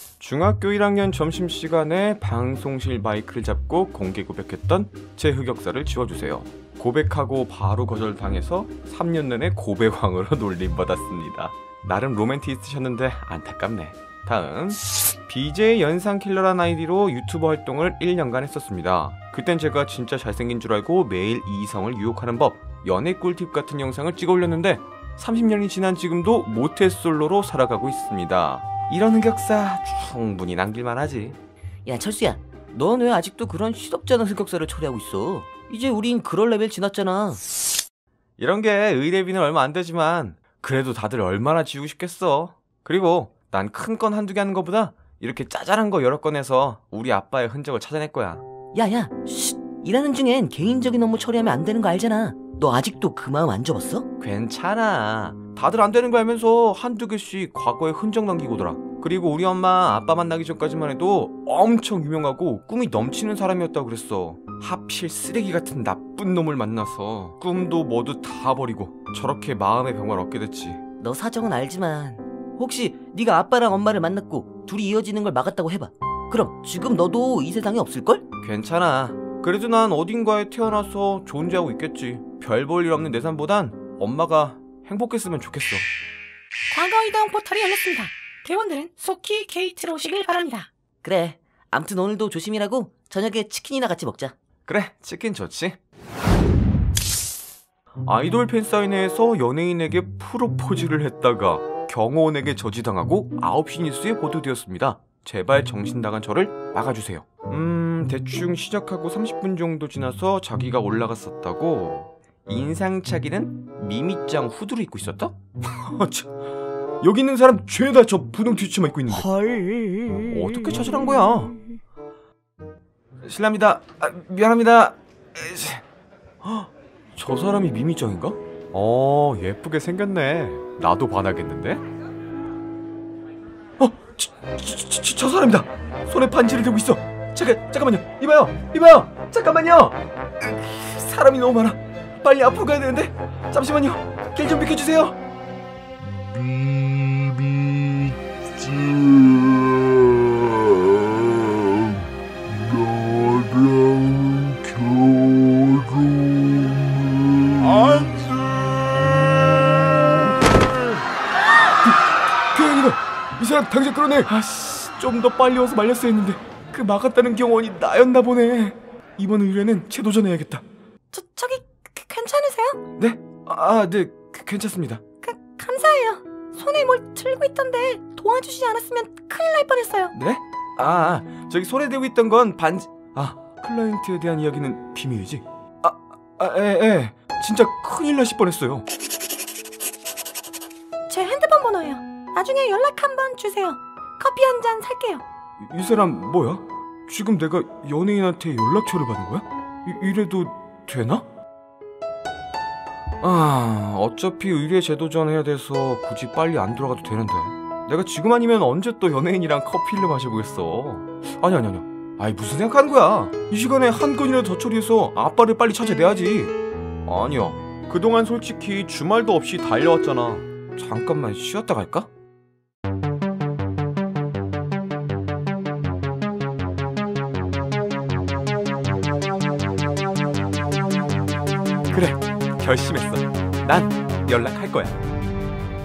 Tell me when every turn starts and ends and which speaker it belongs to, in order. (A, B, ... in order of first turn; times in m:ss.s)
0:00.2-0:31.4 A
0:31.9-0:37.4 B
0:38.4-0:48.4 A
0:48.7-0:54.1 B
0:54.2-1:10.8 A
1:11.0-1:18.2 B
1:18.4-1:25.9 A
1:26.7-1:30.7 C
1:31.0-1:34.3 B
1:34.7-1:35.8 A
1:38.0-1:56.3 A
1:57.0-1:59.4 A
2:00.2-2:01.6 A
2:03.2-2:05.8 A
2:06.4-2:11.8 A
2:13.8-2:25.2 A
2:37.8-2:38.0 A
2:42.5-2:50.6 A
2:51.1-2:52.8 C
2:53.0-2:55.0 A
2:55.2-3:00.1 C
3:00.1-3:08.8 A
3:11.1-3:15.2 C
3:15.6-3:21.2 A
3:23.2-3:42.1 A
3:51.9-3:55.0 A